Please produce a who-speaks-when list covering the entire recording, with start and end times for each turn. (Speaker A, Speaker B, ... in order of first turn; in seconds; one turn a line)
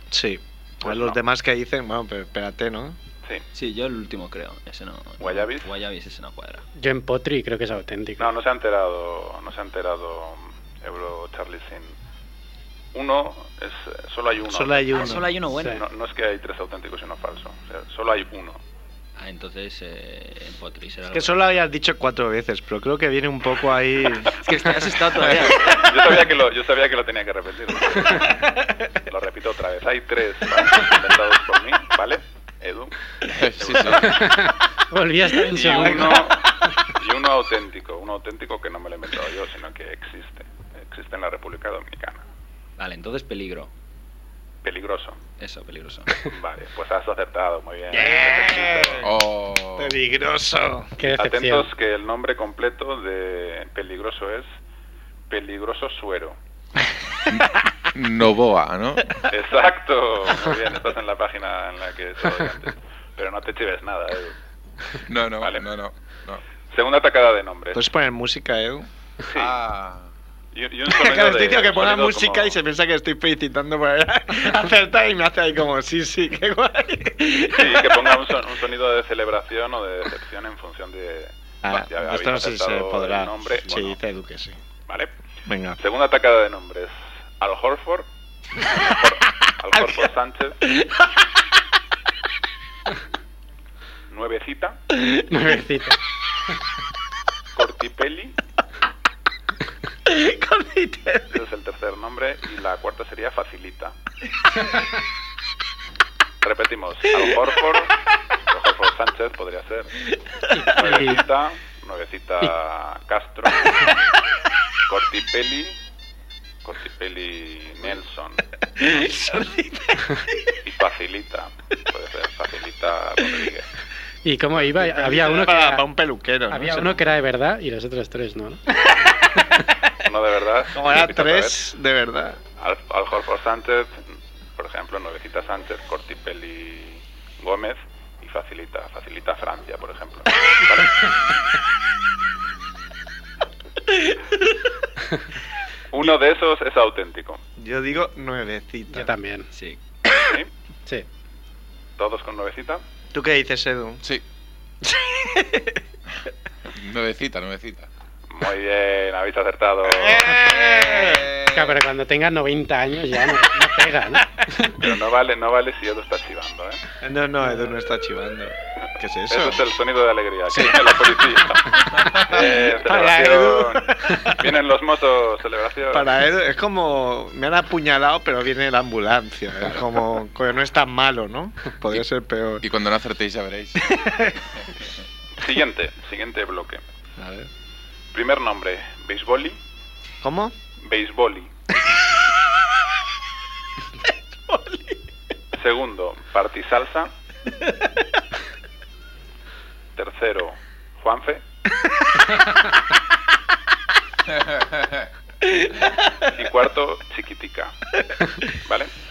Speaker A: 0.1-3.0
Speaker B: 0.8-1.2
Speaker C: 3.5-6.6
Speaker B: 5.2-5.7
Speaker D: 6.8-8.3
Speaker B: 8.2-12.0
Speaker B: 12.9-18.6
Speaker A: 14.4-15.3
Speaker C: 14.9-15.8
Speaker C: 19.2-21.4
Speaker A: 21.1-24.3
Speaker C: 24.4-25.9
Speaker B: 25.8-28.3
Speaker B: 29.1-32.9
Speaker E: 33.3-34.3
Speaker B: 33.6-34.3
Speaker D: 34.1-36.3
Speaker B: 35.4-42.2
Speaker C: 42.8-43.7
Speaker B: 44.6-45.2
Speaker C: 45.4-46.1
Speaker B: 46.2-49.0
Speaker A: 47.9-49.1
Speaker E: 49.0-50.0
Speaker A: 49.8-51.0
Speaker D: 51.0-51.7
Speaker B: 51.1-54.5
Speaker B: 55.3-56.4
Speaker E: 57.3-59.2
Speaker B: 59.3-64.4
Speaker E: 65.0-66.4
Speaker B: 65.4-65.7
Speaker B: 66.7-67.8
Speaker A: 67.7-68.9
Speaker B: 69.2-69.5
Speaker E: 69.3-70.1
Speaker B: 70.5-72.6
Speaker A: 70.9-78.1
Speaker B: 77.5-84.0
Speaker A: 81.6-84.6
Speaker A: 85.5-85.8
Speaker B: 85.8-88.1
Speaker B: 88.7-90.7
Speaker A: 89.8-90.0
Speaker A: 90.7-91.0
Speaker B: 94.1-94.8
Speaker D: 95.2-96.0
Speaker B: 97.5-98.4
Speaker A: 100.0-101.3
Speaker B: 101.3-104.0
Speaker B: 106.4-109.9
Speaker D: 110.5-111.2
Speaker B: 110.7-113.9
Speaker B: 114.8-115.8
Speaker B: 116.6-118.4
Speaker A: 118.8-120.2
Speaker B: 120.6-123.7
Speaker D: 124.2-125.8
Speaker A: 124.7-127.0
Speaker D: 126.5-128.6
Speaker B: 130.0-131.6
Speaker A: 130.7-132.4
Speaker B: 132.6-134.0
Speaker B: 134.6-141.1
Speaker B: 145.9-147.4
Speaker A: 147.6-149.1
Speaker D: 148.9-149.5
Speaker C: 149.5-149.8
Speaker B: 150.2-150.5
Speaker B: 152.0-152.8
Speaker A: 153.1-154.0
Speaker A: 154.8-155.8
Speaker E: 156.7-157.9
Speaker B: 158.3-160.3
Speaker A: 159.8-161.3
Speaker E: 160.5-161.7
Speaker D: 161.5-164.7
Speaker B: 164.8-166.8
Speaker A: 167.0-169.6
Speaker B: 169.3-176.1
Speaker E: 170.5-170.9
Speaker E: 172.0-172.4
Speaker A: 172.2-174.3
Speaker A: 175.9-182.7
Speaker E: 182.6-184.0
Speaker A: 183.9-184.3
Speaker B: 185.4-186.8
Speaker A: 187.2-187.5
Speaker B: 188.1-189.6
Speaker A: 190.2-190.5
Speaker B: 190.8-191.5
Speaker A: 194.4-195.0
Speaker B: 195.5-197.1
Speaker B: 199.9-201.4
Speaker E: 204.4-205.1
Speaker B: 206.3-207.8
Speaker B: 208.6-208.9